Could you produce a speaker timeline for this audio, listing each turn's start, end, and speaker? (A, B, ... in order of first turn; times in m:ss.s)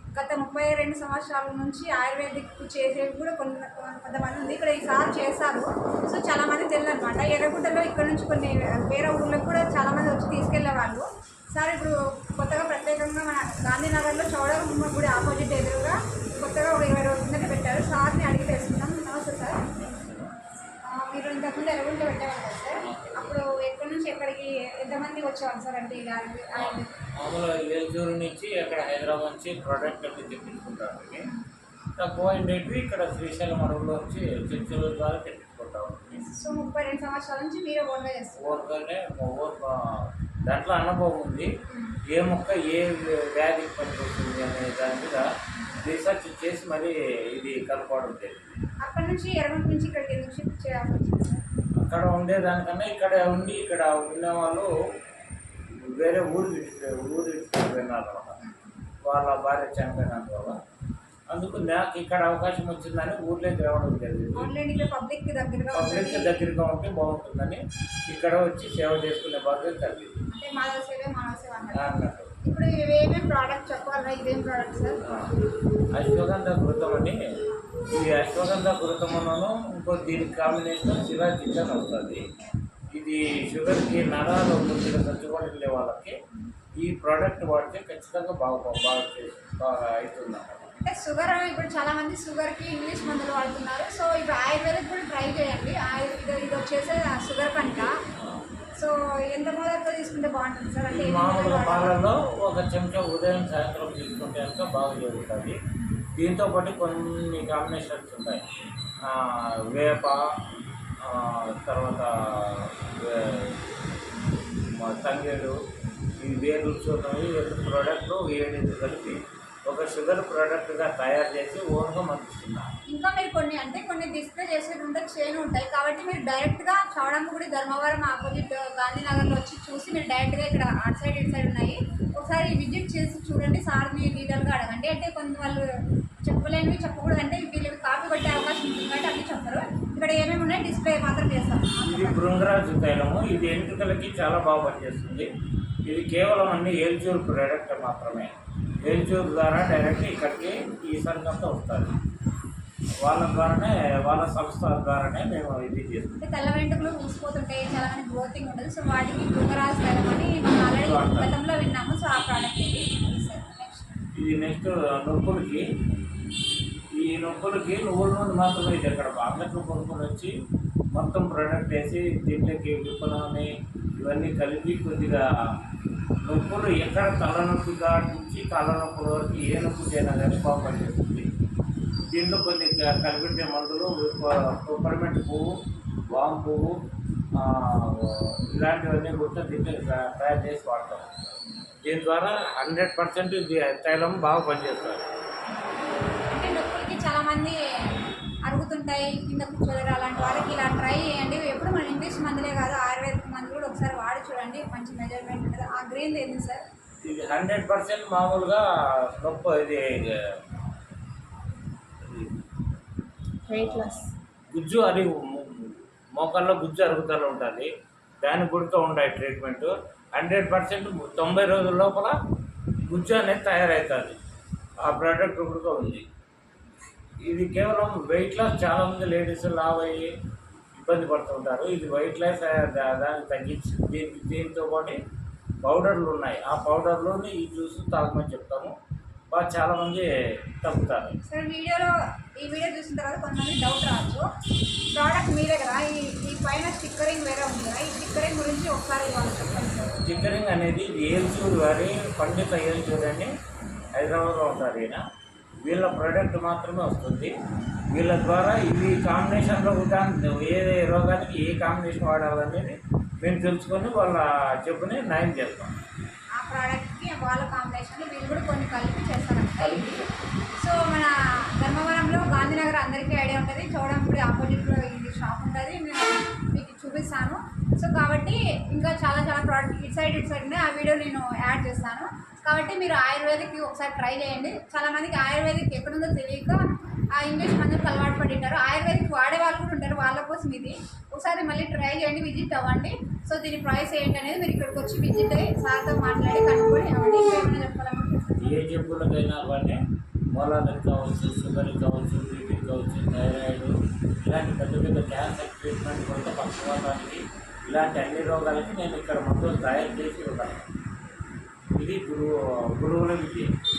0:00.1-0:19.6 A
0:19.7-0:20.3 B
0:20.8-0:26.9 A
0:22.8-0:23.4 B
0:26.5-0:31.3 B
0:32.0-0:36.4 B
0:36.2-0:38.4 A
0:38.4-0:41.5 B
0:41.7-0:42.0 A
0:42.1-0:45.3 B
0:45.8-0:48.6 B
0:48.8-0:51.4 A
0:51.8-0:54.7 B
0:55.7-0:58.4 B
0:58.4-0:58.7 A
0:59.0-1:00.6 B
1:01.3-1:04.5 B
1:04.4-1:06.3 A
1:05.7-1:10.2 B
1:10.3-1:15.0 A
1:11.7-1:12.3 B
1:15.0-1:15.4 B
1:15.9-1:22.2 B
1:22.9-1:26.2 B
1:26.8-1:30.8 B
1:30.8-1:38.0 A
1:37.6-1:38.4 B
1:38.8-1:42.0 A
1:40.9-1:45.6 B
1:46.2-1:48.4 B
1:49.0-1:50.4 B
1:51.0-1:53.6 B
1:54.6-1:55.6 B
1:56.2-2:02.7 B
2:02.9-2:15.6 A
2:16.2-2:22.3 A
2:21.9-2:25.3 B
2:25.8-2:31.9 B
2:33.0-2:36.2 B
2:36.2-2:44.1 A
2:40.8-2:41.3 B
2:44.1-2:45.6 B
2:47.0-2:50.3 B
2:50.9-2:55.3 B
2:56.2-3:01.3 B
3:02.1-3:06.8 B
3:07.3-3:11.1 B
3:11.8-3:15.1 B
3:16.3-3:26.6 A
3:20.1-3:20.6 B
3:27.0-3:30.6 B
3:32.0-3:32.5 B
3:33.5-3:42.2 B
3:42.9-3:44.2 B
3:44.8-3:46.0 B
3:47.2-3:50.1 B
3:50.7-3:55.0 B
3:55.6-3:58.8 B
3:59.3-4:01.2 B
4:01.3-4:04.3 A
4:04.9-4:10.2 A
4:10.0-4:13.3 B
4:13.9-4:15.0 B
4:15.6-4:17.3 B
4:17.9-4:25.8 B
4:26.4-4:30.0 A
4:29.6-4:30.1 B
4:30.6-4:58.6 A
4:58.4-4:59.8 B
5:00.3-5:10.7 B
5:11.8-5:13.5 B